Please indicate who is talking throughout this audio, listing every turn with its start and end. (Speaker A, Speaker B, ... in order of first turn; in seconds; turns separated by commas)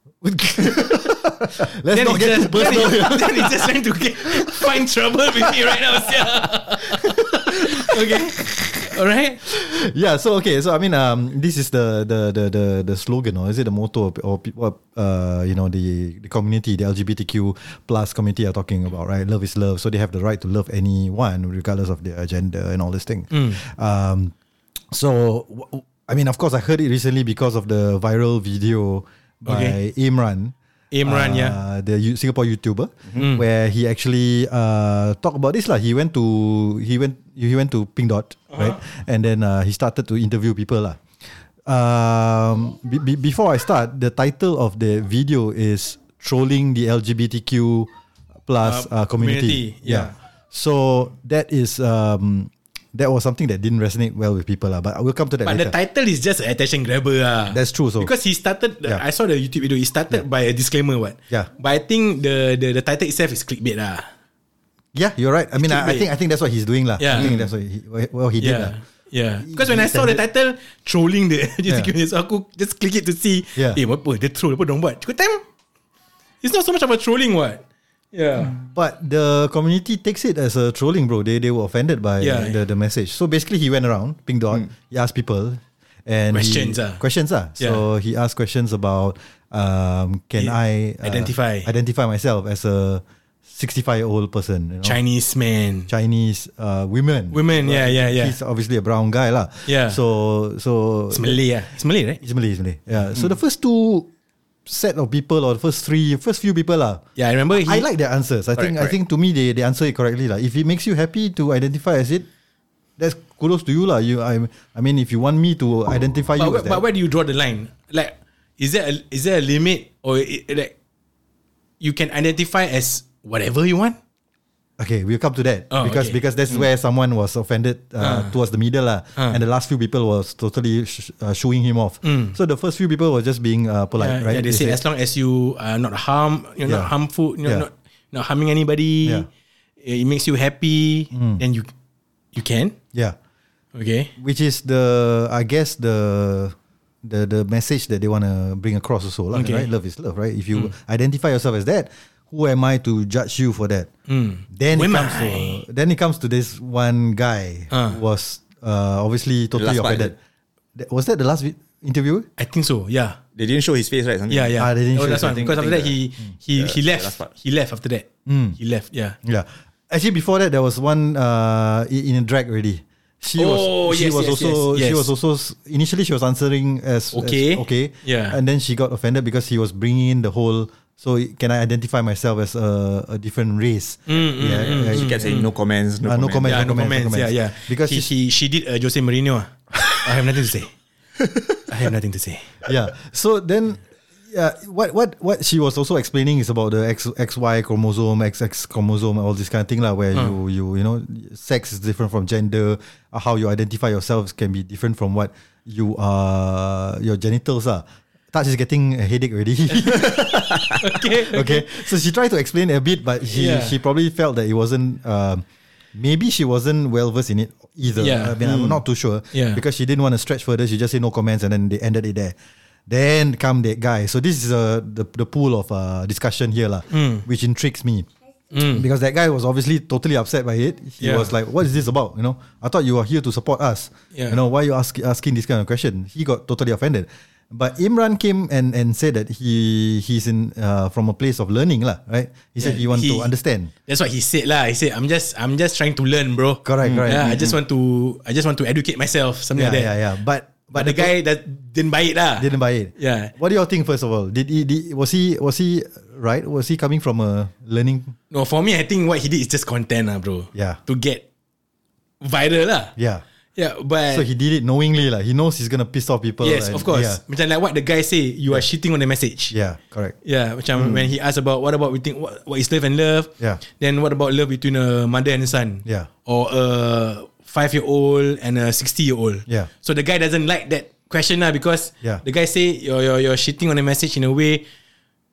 Speaker A: 0.2-3.7, Speaker B: 1.9-9.4, Speaker A: 4.2-4.7, Speaker A: 5.4-6.3, Speaker A: 6.9-8.8, Speaker A: 9.4-24.3, Speaker B: 23.3-23.6, Speaker A: 24.9-30.5, Speaker B: 29.4-29.8, Speaker B: 30.9-31.6, Speaker A: 31.1-41.0, Speaker B: 33.2-33.4, Speaker B: 38.5-38.8, Speaker A: 41.6-47.9, Speaker A: 48.5-55.7, Speaker B: 48.6-50.1, Speaker B: 55.5-64.1, Speaker A: 57.5-58.1, Speaker A: 64.9-68.7, Speaker B: 65.6-66.1, Speaker B: 67.0-67.3, Speaker B: 68.4-75.4, Speaker A: 69.4-70.2, Speaker B: 76.4-77.6, Speaker B: 78.1-78.5, Speaker A: 78.5-95.0, Speaker B: 82.2-82.6, Speaker B: 86.3-87.0, Speaker B: 90.4-91.7, Speaker B: 94.8-95.9, Speaker A: 95.9-101.4, Speaker B: 97.3-98.4, Speaker B: 99.7-100.0, Speaker B: 101.1-102.2, Speaker A: 102.2-104.1, Speaker A: 104.7-112.3, Speaker B: 107.2-107.9, Speaker C: 108.6-109.0, Speaker A: 113.0-116.8, Speaker B: 116.4-120.7, Speaker B: 121.8-124.0, Speaker A: 124.8-134.8, Speaker B: 125.7-126.2, Speaker B: 128.0-128.3, Speaker B: 132.0-132.4, Speaker B: 134.0-139.3, Speaker A: 136.7-136.9, Speaker B: 139.8-141.7, Speaker A: 141.1-141.4, Speaker B: 142.3-142.8, Speaker B: 143.8-144.1, Speaker A: 144.2-153.9, Speaker B: 149.3-149.7, Speaker B: 154.1-155.6, Speaker A: 154.5-160.2, Speaker B: 157.7-158.0, Speaker C: 159.6-160.1, Speaker A: 160.8-162.3, Speaker B: 162.4-163.2, Speaker C: 163.4-166.0, Speaker B: 164.3-169.2, Speaker A: 164.6-165.5, Speaker C: 166.6-167.3, Speaker A: 168.3-168.6, Speaker A: 169.2-185.3, Speaker B: 173.4-175.1, Speaker B: 177.1-178.4, Speaker B: 184.1-185.5, Speaker C: 184.6-186.7, Speaker A: 186.0-188.1, Speaker B: 186.5-190.7, Speaker B: 191.7-192.6, Speaker A: 192.7-222.4, Speaker B: 210.8-211.9, Speaker B: 213.3-213.8, Speaker B: 218.0-218.4, Speaker C: 218.4-218.8, Speaker B: 219.3-219.6, Speaker A: 222.9-243.7, Speaker B: 226.9-227.2, Speaker B: 228.5-228.9, Speaker B: 231.0-231.3, Speaker B: 242.6-243.3, Speaker B: 243.9-250.0, Speaker A: 246.7-247.6, Speaker C: 246.8-247.2, Speaker A: 249.6-251.1, Speaker B: 250.5-253.3, Speaker A: 252.4-258.1, Speaker B: 258.3-261.2, Speaker A: 260.6-260.8, Speaker B: 262.2-262.9, Speaker A: 263.0-263.2, Speaker B: 263.6-264.3, Speaker A: 264.1-267.2, Speaker B: 266.4-269.5, Speaker A: 269.5-270.1, Speaker B: 270.2-284.7, Speaker A: 270.8-271.0